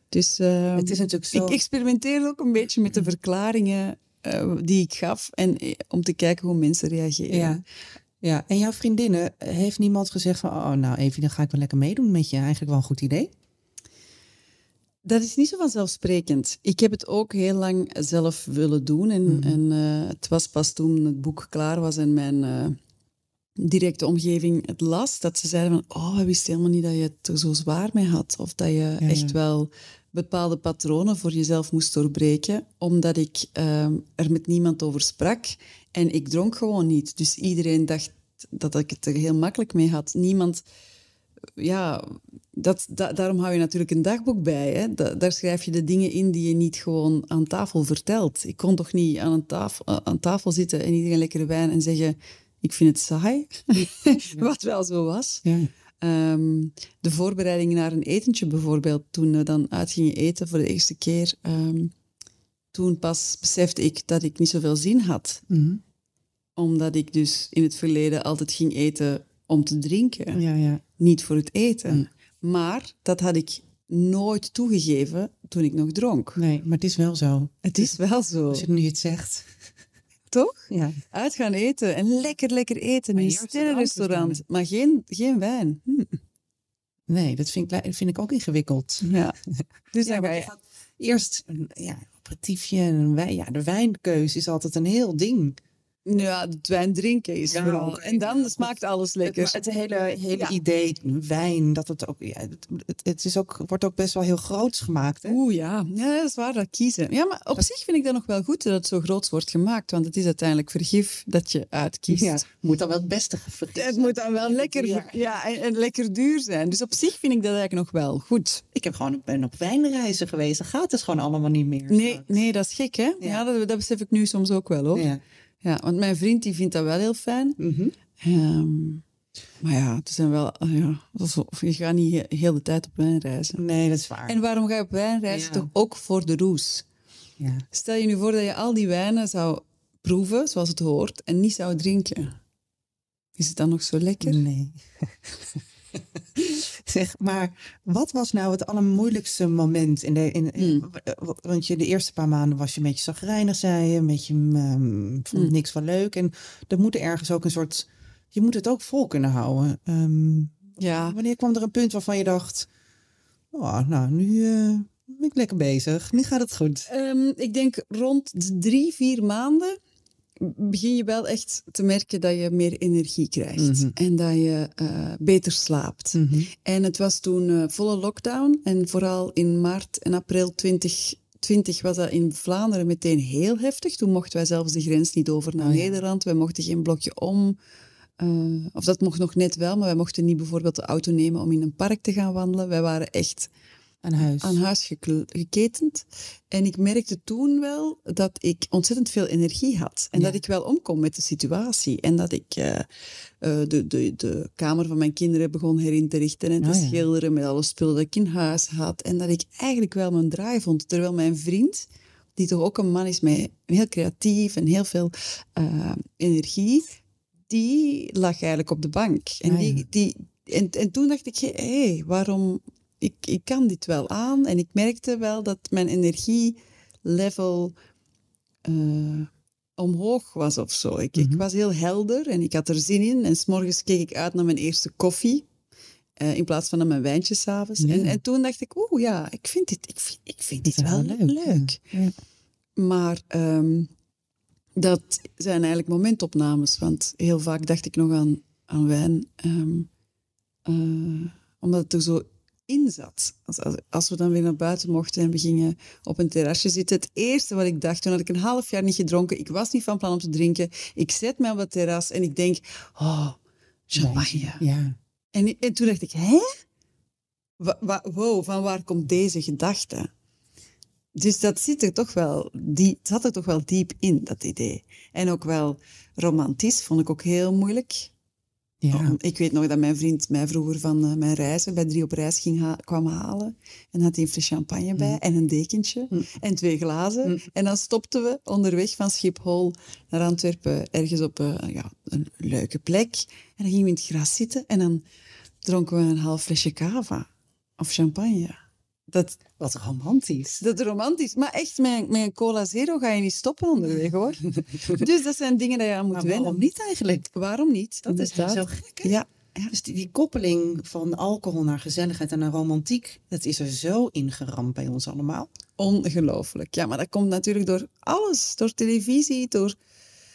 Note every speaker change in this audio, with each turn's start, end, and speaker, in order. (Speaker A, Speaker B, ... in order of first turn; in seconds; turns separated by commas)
Speaker A: 0.1-7.6, Speaker B: 0.8-1.6, Speaker B: 7.3-7.6, Speaker B: 8.2-13.3, Speaker A: 15.0-22.8, Speaker B: 19.3-19.6, Speaker A: 23.6-40.6, Speaker B: 29.0-29.4, Speaker A: 41.6-55.5, Speaker B: 55.4-55.7, Speaker A: 56.0-61.9, Speaker A: 62.7-65.4, Speaker B: 65.5-65.8, Speaker A: 66.6-70.4, Speaker B: 70.3-70.8, Speaker A: 71.0-76.4, Speaker B: 76.4-77.9, Speaker A: 77.6-78.7, Speaker B: 78.5-79.5, Speaker A: 80.3-86.2, Speaker B: 80.7-81.0, Speaker B: 83.1-84.4, Speaker B: 87.1-89.1, Speaker A: 89.0-89.4, Speaker B: 89.6-95.6, Speaker A: 89.9-90.5, Speaker A: 96.1-99.6, Speaker B: 97.5-105.4, Speaker A: 105.2-112.4, Speaker B: 112.1-115.3, Speaker A: 113.8-118.6, Speaker B: 118.7-122.3, Speaker A: 121.9-125.1, Speaker B: 124.9-125.2, Speaker A: 125.6-127.6, Speaker B: 127.6-128.0, Speaker A: 128.2-129.0, Speaker A: 129.6-133.6, Speaker B: 133.6-134.4, Speaker A: 134.3-136.8, Speaker B: 135.3-135.7, Speaker B: 137.4-137.7, Speaker A: 137.7-142.4, Speaker A: 143.4-144.4, Speaker B: 144.2-162.7, Speaker A: 150.6-150.8, Speaker A: 160.8-161.2, Speaker B: 163.5-166.9, Speaker A: 166.9-169.8, Speaker A: 170.4-187.6, Speaker B: 173.6-173.9, Speaker B: 176.1-176.5, Speaker B: 185.6-186.0, Speaker A: 188.2-193.5, Speaker B: 194.0-194.6, Speaker A: 194.4-202.9, Speaker B: 200.1-200.4, Speaker A: 203.4-227.8, Speaker B: 206.6-207.1, Speaker B: 219.4-219.9, Speaker A: 228.7-235.4, Speaker B: 231.2-231.4, Speaker A: 236.2-241.8, Speaker B: 237.8-238.2, Speaker B: 240.7-242.1, Speaker A: 242.8-243.9, Speaker A: 244.8-249.9, Speaker A: 250.7-263.4, Speaker A: 263.9-264.6, Speaker B: 264.0-265.0, Speaker A: 265.3-266.6, Speaker A: 267.6-270.1, Speaker A: 271.1-278.1, Speaker B: 278.8-279.2, Speaker A: 278.9-295.0, Speaker A: 295.6-298.6, Speaker A: 299.1-299.4, Speaker B: 299.6-300.6, Speaker A: 300.6-306.6, Speaker B: 304.4-305.0, Speaker B: 306.1-307.3, Speaker A: 307.3-309.7, Speaker B: 308.1-309.2, Speaker B: 309.7-315.5, Speaker A: 315.8-319.8